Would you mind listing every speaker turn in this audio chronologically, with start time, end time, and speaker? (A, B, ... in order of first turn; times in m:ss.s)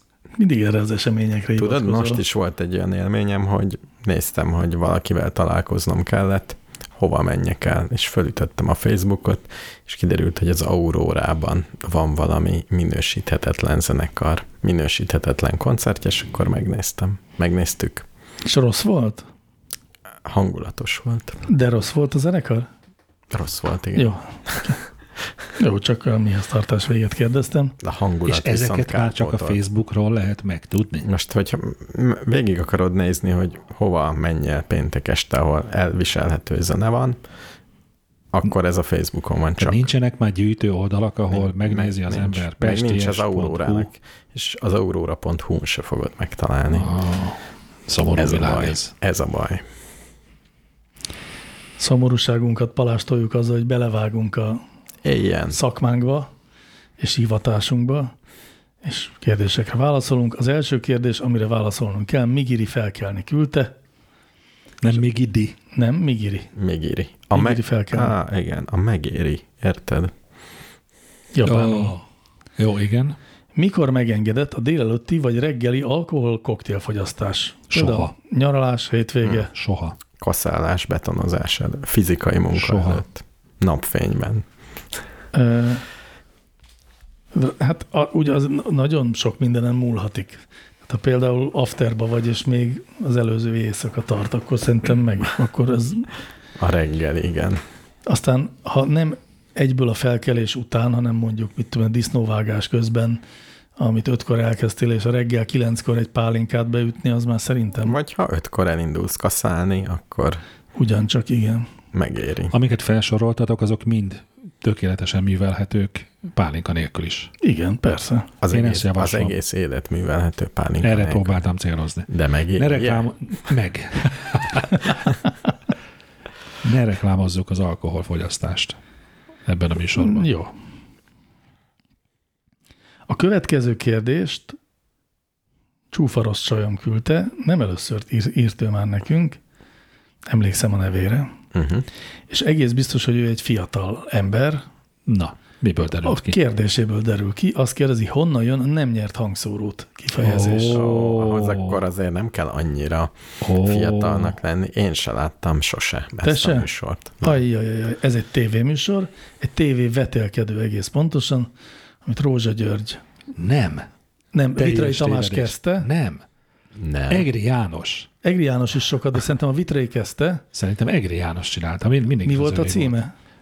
0:00.4-0:02.2 A
0:01.6-0:18.1 B
0:18.4-0:19.2 A
0:20.2-0:21.4 B
0:21.5-0:22.7 A
0:23.3-0:24.6 B
0:24.0-0:24.8 A
0:25.6-0:27.8 A
0:27.8-0:29.6 B
0:28.3-0:31.1 C
0:31.0-0:37.2 B
0:38.3-0:39.9 B
0:39.6-0:43.9 C
0:41.3-0:46.9 B
0:46.7-0:48.9 C
0:48.2-0:49.6 B
0:51.8-0:54.6 A
0:55.0-0:55.6 B
0:55.5-0:56.3 A
0:57.0-0:58.1 A
0:58.8-1:03.7 A
1:04.8-1:05.6 C
1:05.7-1:06.5 A
1:06.6-1:10.1 B
1:07.3-1:08.1 A
1:11.3-1:12.0 A
1:11.5-1:12.0 C
1:12.6-1:13.2 C
1:13.6-1:19.5 A
1:17.7-1:18.1 C
1:19.5-1:20.0 C
1:20.2-1:24.5 B
1:22.5-1:23.0 C
1:25.3-1:25.8 A
1:27.3-1:36.1 A
1:36.6-1:37.6 B
1:38.0-1:43.2 A
1:43.8-1:48.0 A
1:47.8-1:50.4 B
1:50.8-1:51.7 A
1:51.9-1:52.5 B
1:52.5-1:57.3 C
1:57.4-1:58.3 A
1:58.4-2:01.4 B
1:58.5-1:59.4 C
2:00.8-2:04.9 C
2:02.1-2:03.1 B
2:06.6-2:08.8 C
2:09.5-2:10.3 C
2:10.0-2:10.5 A
2:13.1-2:14.6 A
2:15.9-2:19.4 A
2:20.3-2:21.4 A
2:21.5-2:21.9 B
2:22.3-2:24.6 A
2:25.1-2:26.4 C
2:26.0-2:30.8 A
2:30.2-2:31.8 C
2:30.7-2:37.4 B
2:33.4-2:34.4 C
2:36.2-2:36.7 A
2:37.2-2:41.5 A
2:42.0-2:43.0 A
2:43.4-2:43.9 C
2:44.3-2:45.9 A
2:44.6-2:46.2 C
2:46.7-2:47.3 B
2:47.1-2:48.1 C
2:48.2-2:50.4 A
2:50.5-2:52.9 C
2:52.2-2:53.1 A